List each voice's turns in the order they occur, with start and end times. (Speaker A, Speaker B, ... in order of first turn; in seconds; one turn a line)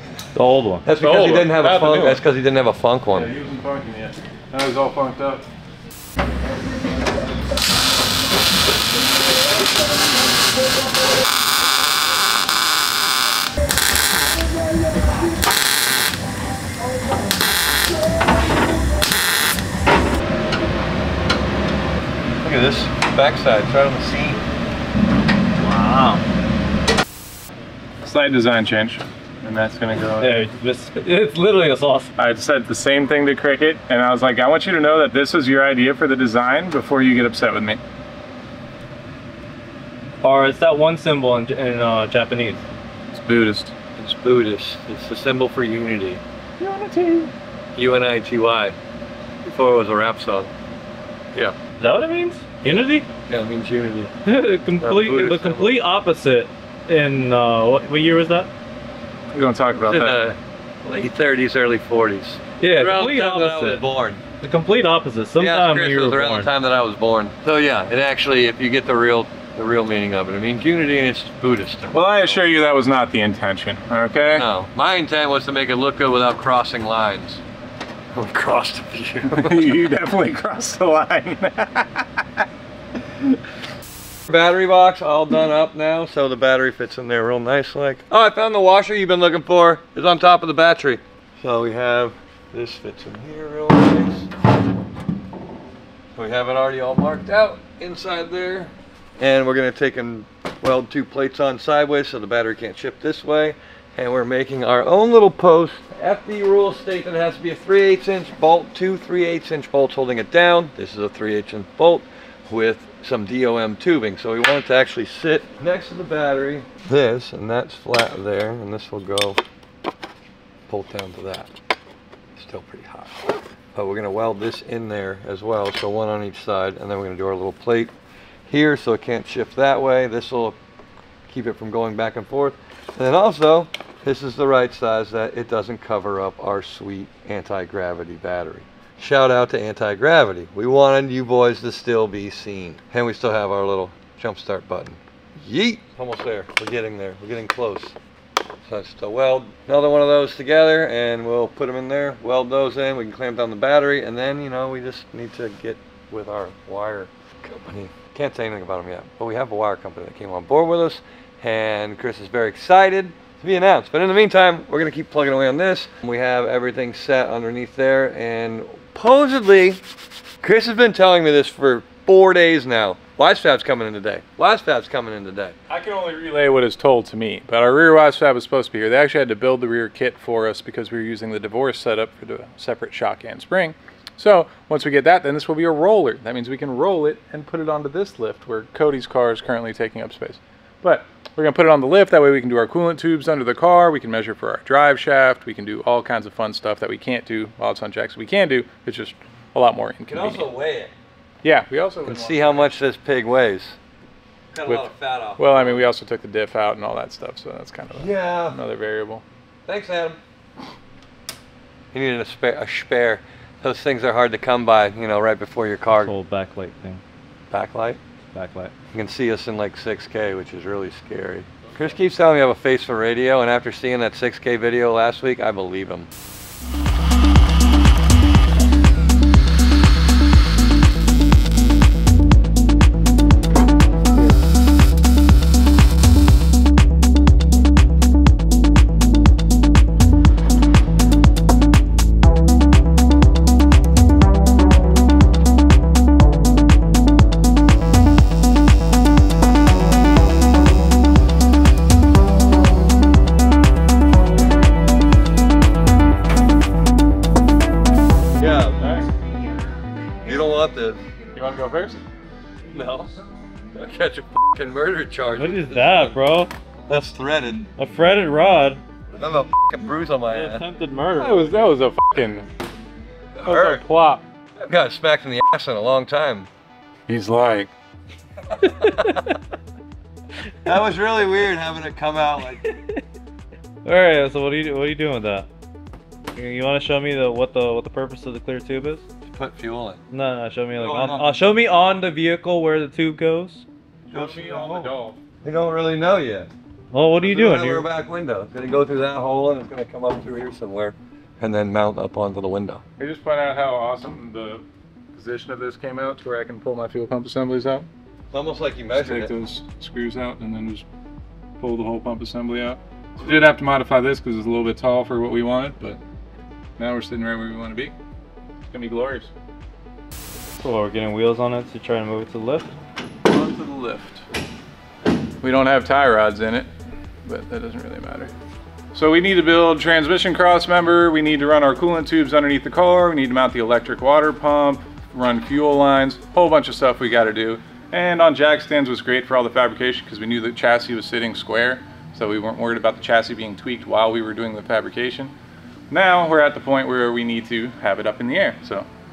Speaker A: 0.3-0.8
Speaker B: 0.8-3.3
Speaker C: 1.0-2.2
Speaker C: 3.1-5.5
Speaker B: 22.4-24.4
Speaker A: 25.6-26.2
Speaker C: 28.0-30.4
Speaker A: 30.2-32.1
Speaker C: 32.2-37.8
Speaker A: 40.2-42.6
Speaker C: 43.1-43.7
Speaker B: 44.0-46.2
Speaker C: 46.6-47.3
Speaker B: 47.8-48.8
Speaker B: 49.4-50.5
Speaker A: 51.8-53.0
Speaker B: 53.3-54.1
Speaker A: 54.2-58.5
Speaker B: 54.8-55.8
Speaker C: 59.3-60.2
Speaker B: 59.7-64.2
Speaker A: 62.6-63.8
Speaker A: 64.4-66.5
Speaker B: 65.4-72.4
Speaker C: 71.9-74.5
Speaker B: 74.3-77.4
Speaker B: 78.1-79.8
Speaker C: 79.2-82.4
Speaker B: 84.3-94.3
Speaker B: 96.2-119.4
Speaker B: 120.7-121.5
Speaker B: 122.3-127.9
Speaker B: 128.5-130.6
Speaker B: 131.3-147.9
Speaker B: 148.6-169.8
Speaker B: 170.4-175.6
Speaker C: 175.7-200.4
Speaker B: 200.1-200.9
Speaker C: 201.4-202.7
Speaker B: 202.0-203.8
Speaker B: 204.5-205.8
Speaker C: 204.7-209.2
Speaker B: 207.9-208.6
Speaker B: 209.7-210.2
Speaker B: 211.9-216.1
Speaker A: 215.9-217.0
Speaker B: 217.5-218.0
Speaker A: 218.3-218.7
Speaker B: 218.9-226.1
Speaker B: 258.4-258.9
Speaker C: 258.8-259.1
Speaker B: 260.2-261.0
Speaker C: 261.3-262.0
Speaker B: 262.7-263.1
Speaker B: 263.7-266.2
Speaker A: 265.3-266.5
Speaker B: 266.9-267.7
Speaker A: 267.8-268.8
Speaker B: 269.2-270.6
Speaker A: 270.3-271.6
Speaker C: 271.2-272.5
Speaker C: 273.4-274.2
Speaker B: 273.4-273.8
Speaker B: 274.6-276.5
Speaker C: 277.1-277.7
Speaker A: 278.5-279.3
Speaker B: 278.7-279.3
Speaker B: 280.6-282.6
Speaker A: 283.8-285.5
Speaker A: 286.3-289.0
Speaker B: 289.3-290.0
Speaker A: 290.1-293.6
Speaker B: 290.8-291.4
Speaker C: 294.1-295.2
Speaker B: 294.1-294.9
Speaker B: 295.4-296.5
Speaker A: 296.9-297.9
Speaker B: 297.2-302.8
Speaker C: 303.0-307.9
Speaker B: 308.3-309.3
Speaker C: 308.9-310.9
Speaker C: 311.6-316.0
Speaker C: 316.8-317.9
Speaker C: 318.7-319.3
Speaker A: 320.5-322.7
Speaker C: 323.2-324.2
Speaker C: 325.4-326.7
Speaker C: 327.2-328.3
Speaker C: 328.9-345.3
Speaker C: 345.9-348.9